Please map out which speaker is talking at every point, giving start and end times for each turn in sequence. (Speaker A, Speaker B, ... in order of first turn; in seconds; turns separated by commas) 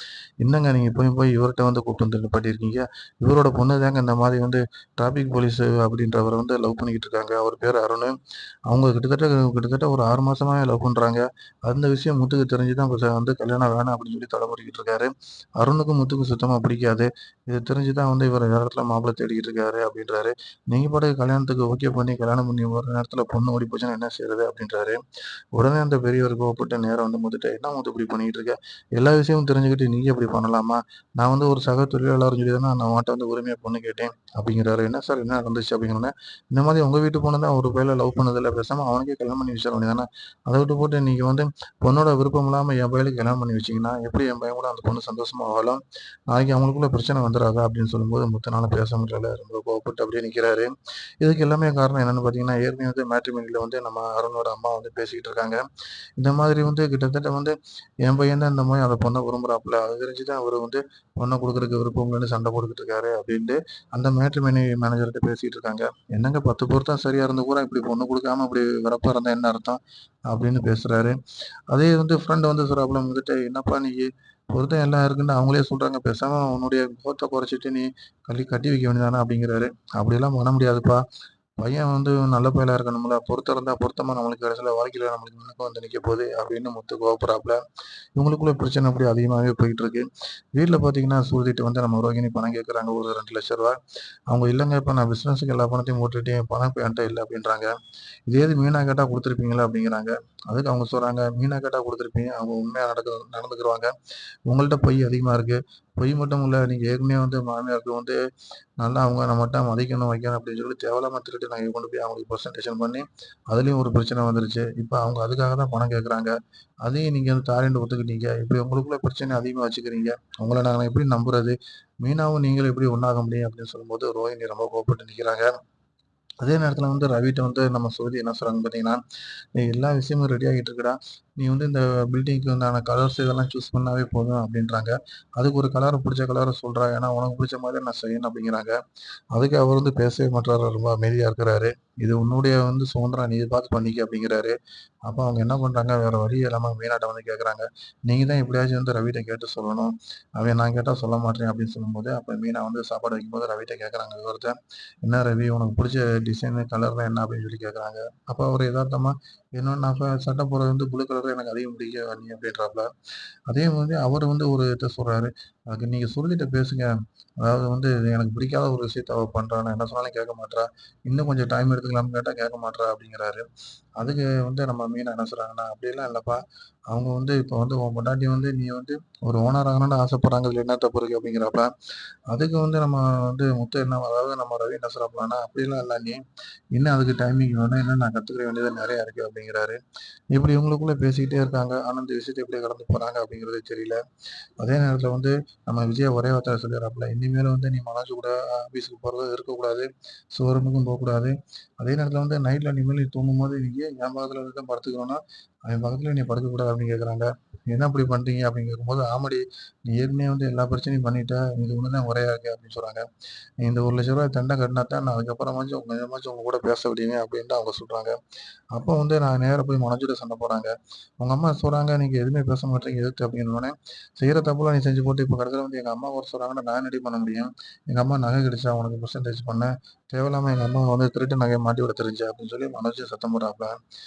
Speaker A: 0.4-8.1, Speaker A: 8.7-25.0, Speaker A: 25.5-55.6, Speaker A: 56.2-71.2, Speaker A: 71.7-81.0, Speaker A: 81.6-87.6, Speaker A: 88.2-93.8, Speaker A: 94.3-97.7, Speaker A: 98.3-103.9, Speaker A: 104.5-108.2, Speaker A: 108.8-125.5, Speaker A: 126.4-129.0, Speaker A: 129.6-138.8, Speaker A: 139.3-144.5, Speaker A: 145.1-162.9, Speaker A: 163.5-173.5, Speaker A: 174.0-181.7, Speaker A: 182.3-186.2, Speaker A: 186.7-189.8, Speaker A: 190.3-194.0, Speaker A: 194.6-213.0, Speaker A: 213.6-218.1, Speaker A: 218.7-233.8